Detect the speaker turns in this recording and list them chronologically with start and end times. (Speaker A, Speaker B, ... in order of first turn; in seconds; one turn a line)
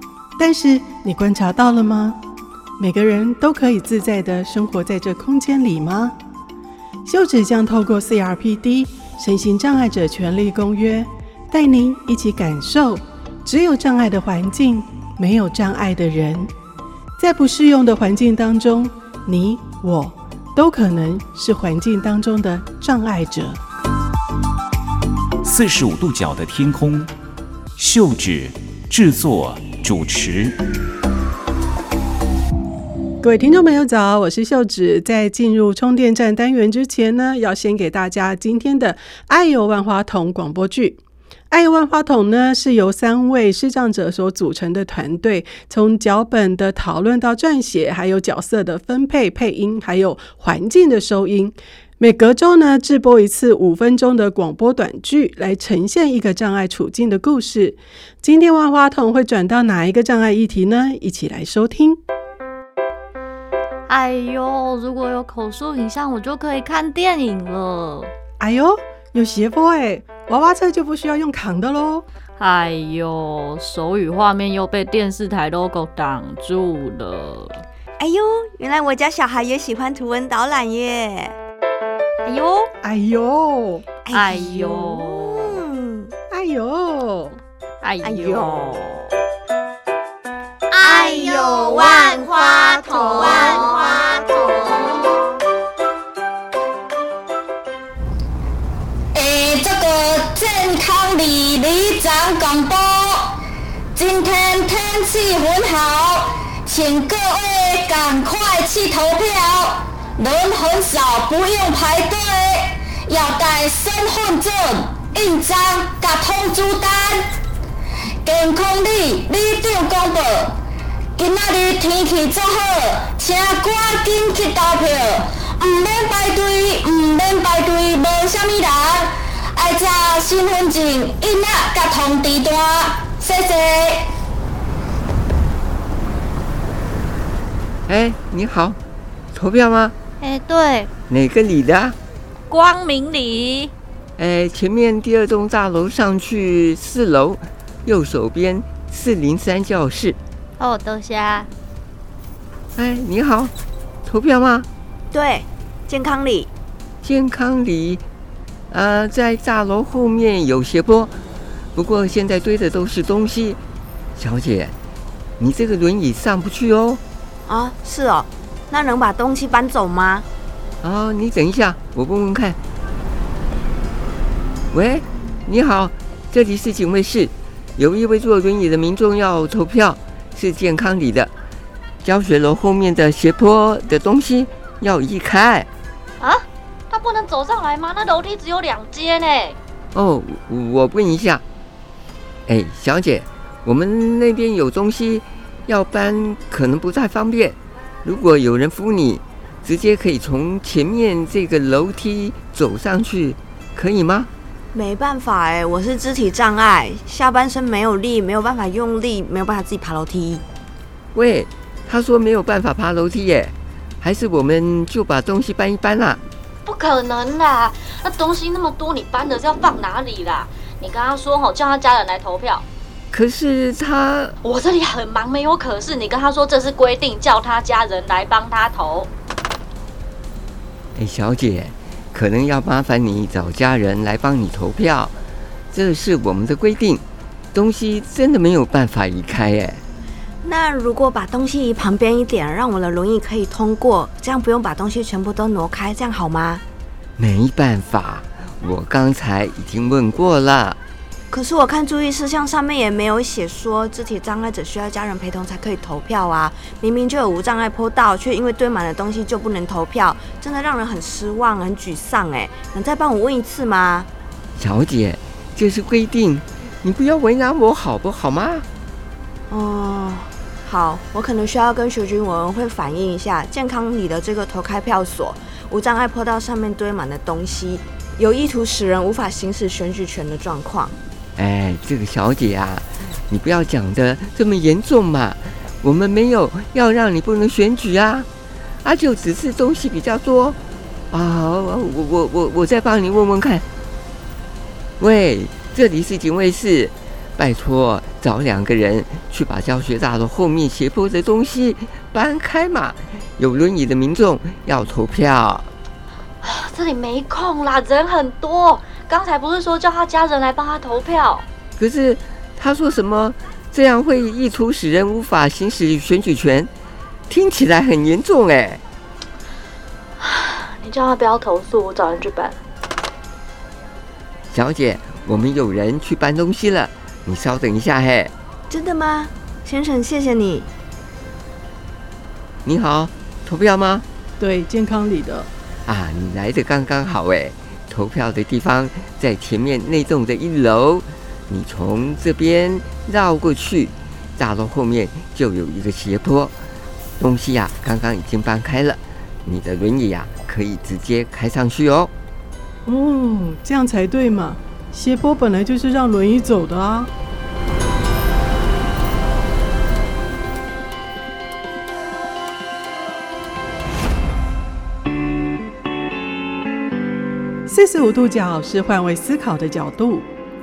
Speaker A: 0.4-2.2
Speaker A: 2.8-6.2
Speaker A: 7.1-16.5
Speaker A: 17.2-23.6
Speaker B: 25.4-27.1
Speaker B: 27.8-30.6
Speaker A: 33.2-41.0
Speaker A: 41.5-62.0
Speaker C: 63.9-68.1
Speaker A: 68.4-72.1
Speaker C: 72.4-77.6
Speaker D: 78.0-81.4
Speaker C: 82.2-82.7
Speaker A: 82.8-83.9
Speaker D: 84.1-86.1
Speaker C: 84.1-85.6
Speaker A: 86.3-87.4
Speaker C: 87.8-88.6
Speaker D: 88.0-89.1
Speaker C: 90.8-94.9
Speaker D: 90.8-95.2
Speaker E: 99.1-103.4
Speaker E: 103.9-117.3
Speaker E: 118.2-120.6
Speaker E: 121.2-134.1
Speaker F: 137.9-138.8
Speaker F: 139.3-139.9
Speaker C: 140.2-140.9
Speaker F: 141.1-142.0
Speaker C: 142.5-143.7
Speaker F: 144.2-150.2
Speaker C: 150.6-151.5
Speaker F: 152.8-153.5
Speaker F: 154.1-154.7
Speaker D: 155.1-156.5
Speaker F: 157.0-158.0
Speaker F: 158.7-161.1
Speaker F: 161.8-163.6
Speaker F: 164.2-164.7
Speaker F: 165.4-167.0
Speaker D: 167.5-170.3
Speaker F: 170.8-172.6
Speaker F: 174.7-181.3
Speaker F: 182.0-185.7
Speaker G: 186.2-189.6
Speaker F: 189.9-191.4
Speaker F: 192.5-204.3
Speaker D: 204.7-210.4
Speaker F: 211.1-216.2
Speaker G: 216.7-222.7
Speaker F: 223.1-224.4
Speaker G: 224.4-229.1
Speaker F: 231.0-235.2
Speaker F: 235.7-237.0
Speaker F: 237.5-239.8
Speaker D: 240.4-246.6
Speaker F: 247.2-250.8
Speaker D: 251.3-264.1
Speaker F: 264.6-268.7
Speaker D: 269.5-280.9
Speaker F: 281.4-288.3
Speaker F: 288.8-290.6
Speaker F: 291.1-293.6
Speaker F: 295.0-305.7
Speaker G: 306.4-311.5
Speaker F: 311.8-316.7
Speaker F: 317.3-318.8
Speaker G: 320.2-322.6
Speaker F: 324.5-328.3
Speaker D: 328.7-330.7
Speaker F: 332.6-334.1
Speaker A: 334.4-335.5
Speaker F: 335.9-346.6
Speaker F: 347.2-352.1
Speaker A: 352.9-357.1
Speaker A: 367.7-370.3